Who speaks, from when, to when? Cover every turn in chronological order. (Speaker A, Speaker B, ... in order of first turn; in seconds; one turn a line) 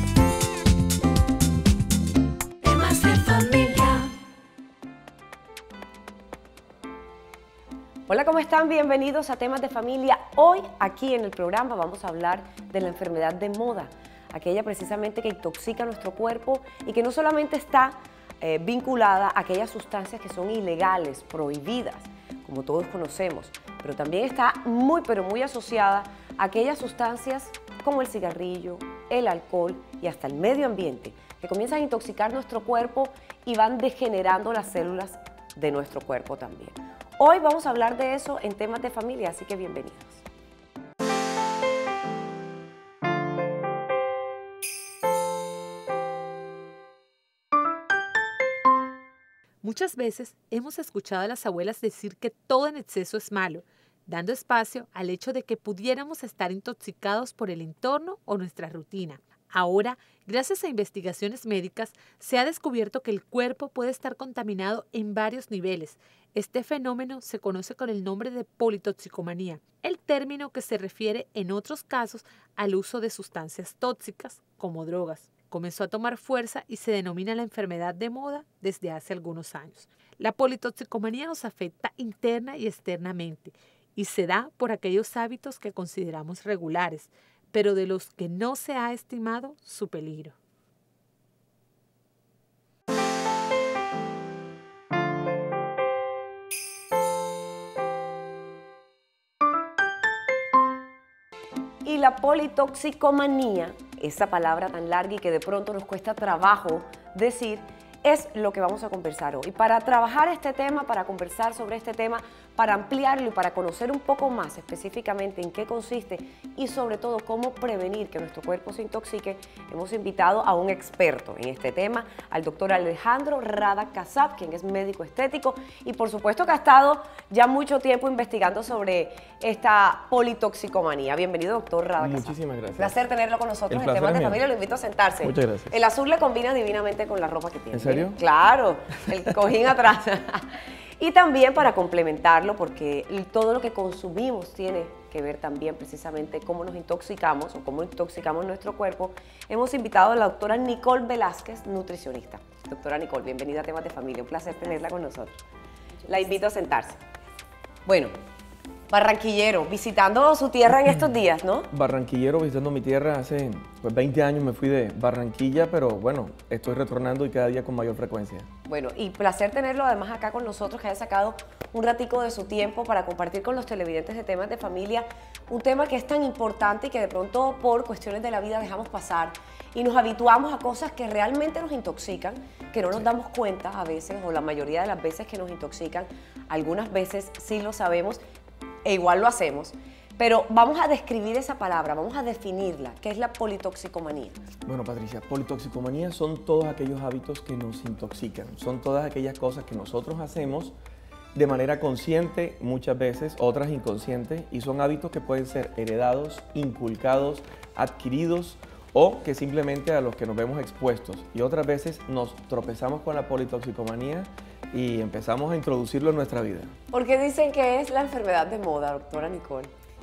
Speaker A: 2.6-4.1
Speaker B: 8.1-40.2
Speaker A: 49.6-90.3
Speaker B: 101.8-155.4
Speaker C: 132.0-133.0
Speaker C: 133.7-134.4
Speaker C: 135.2-135.7
Speaker C: 137.7-138.2
Speaker B: 156.1-157.0
Speaker B: 157.8-158.1
Speaker B: 158.9-161.7
Speaker C: 161.7-168.5
Speaker B: 168.7-188.2
Speaker B: 188.8-194.4
Speaker C: 194.7-200.7
Speaker C: 201.3-216.7
Speaker B: 216.9-219.7